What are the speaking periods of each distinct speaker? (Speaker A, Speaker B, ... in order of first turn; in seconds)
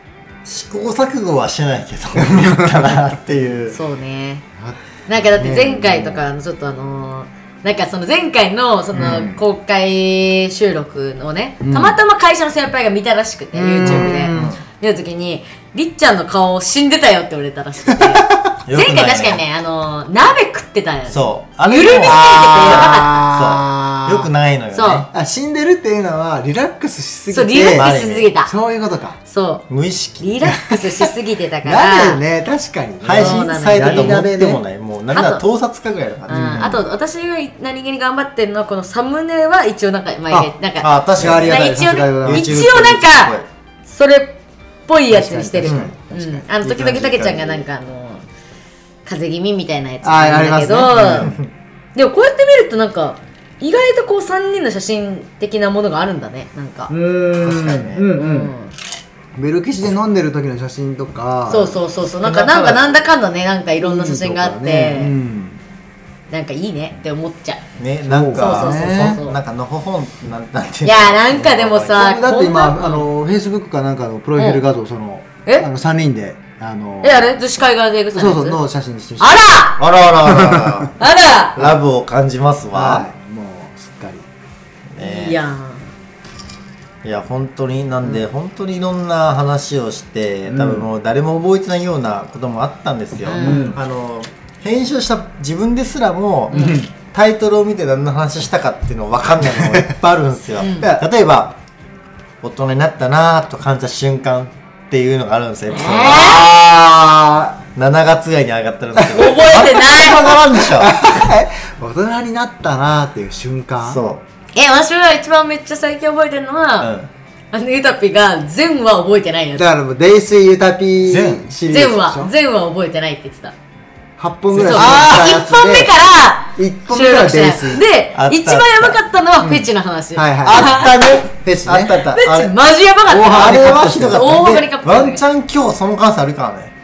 Speaker A: 0.4-3.8, 13.8-14.6, 18.6-19.4, 21.1-25.1, 27.8-28.3, 29.7-30.3, 33.0-36.8, 40.3-43.5, 45.6-45.9, 46.6-47.7, 50.9-51.5, 57.4-58.1, 62.2-63.0, 67.8-72.1, 79.8-81.0, 81.5-83.1, 84.9-85.4, 87.0-101.6, 102.4-106.7, 107.8-111.0, 113.8-114.2, 116.8-117.1, 121.1-121.5, 124.5-125.2, 128.1-129.0, 130.4-132.5, 133.1-136.7
Speaker B: 3.7-4.5, 5.1-23.2, 24.7-25.1, 27.3-28.5, 29.3-29.7, 30.2-32.2, 33.1-34.1, 35.1-35.4, 36.3-48.2, 49.0-51.3, 52.0-56.9, 58.1-58.7, 61.5-65.2, 66.3-67.6, 68.3-69.4, 70.8-73.1, 74.4-74.6, 77.0-78.6, 79.2-79.8, 81.0-81.6, 85.0-85.9, 93.2-93.8, 96.5-96.8, 100.6-100.9, 105.7-106.5, 109.1-110.4, 114.5-116.9, 117.5-119.7, 121.7-123.5, 124.5-130.9, 132.1-135.2
Speaker C: 4.6-6.2, 8.9-9.4, 11.6-12.0, 13.5-14.5, 22.0-24.3, 25.1-27.9, 28.4-29.2, 31.6-34.6, 36.3-36.8, 41.2-42.7, 45.1-46.5, 50.0-51.4, 56.9-58.5, 59.4-61.8, 63.8-65.6, 68.0-69.2, 72.0-77.3, 78.1-79.5, 80.2-80.9, 82.7-84.2, 90.5-90.9, 93.4-93.8, 96.6-96.9, 106.3-107.5, 109.0-109.7, 110.5-114.0, 119.6-122.3, 124.2-126.0, 126.6-127.8, 129.4-132.1, 133.1-134.4